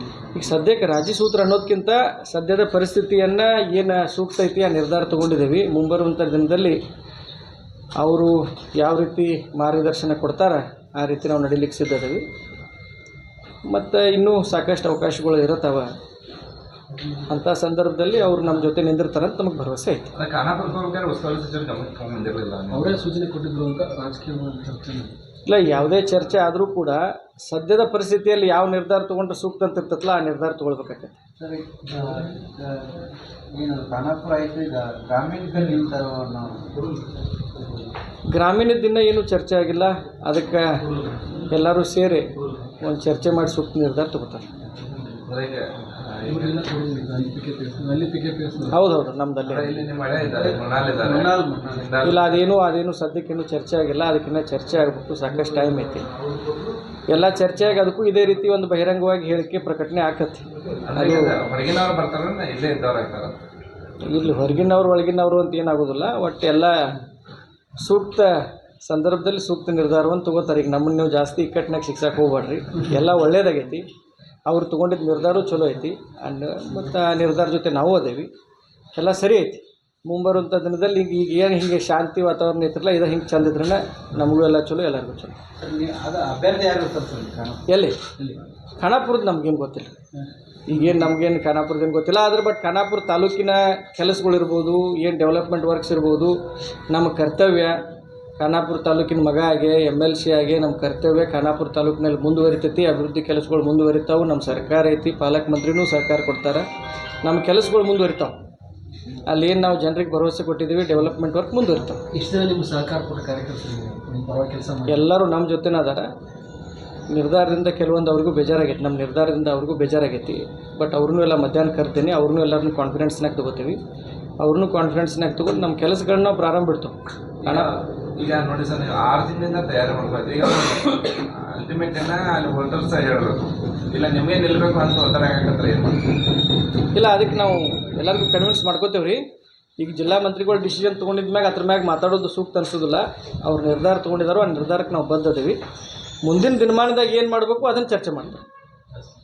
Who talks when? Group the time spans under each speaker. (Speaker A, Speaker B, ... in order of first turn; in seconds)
Speaker A: 0.3-6.8, 8.0-12.2, 13.7-15.9, 17.3-20.1, 25.5-31.2, 38.3-40.7, 41.4-44.5, 48.7-49.8, 52.0-56.1, 57.1-61.3, 64.0-67.0, 67.8-68.3, 68.9-73.8, 74.5-78.3, 79.0-85.4, 87.7-88.0, 88.8-89.9, 90.7-96.3, 96.9-97.8, 98.4-106.7, 107.2-108.3, 109.2-112.0, 114.9-116.1, 117.1-123.8, 124.4-127.7, 136.9-139.2, 139.8-145.6, 146.2-148.4
Speaker B: 20.1-22.9, 45.2-46.7, 49.5-52.3, 60.8-63.4, 127.4-136.1
Speaker C: 22.7-25.1, 46.2-48.8, 56.0-56.8, 112.1-115.0
Speaker D: 31.4-36.8, 51.0-51.9, 85.6-87.7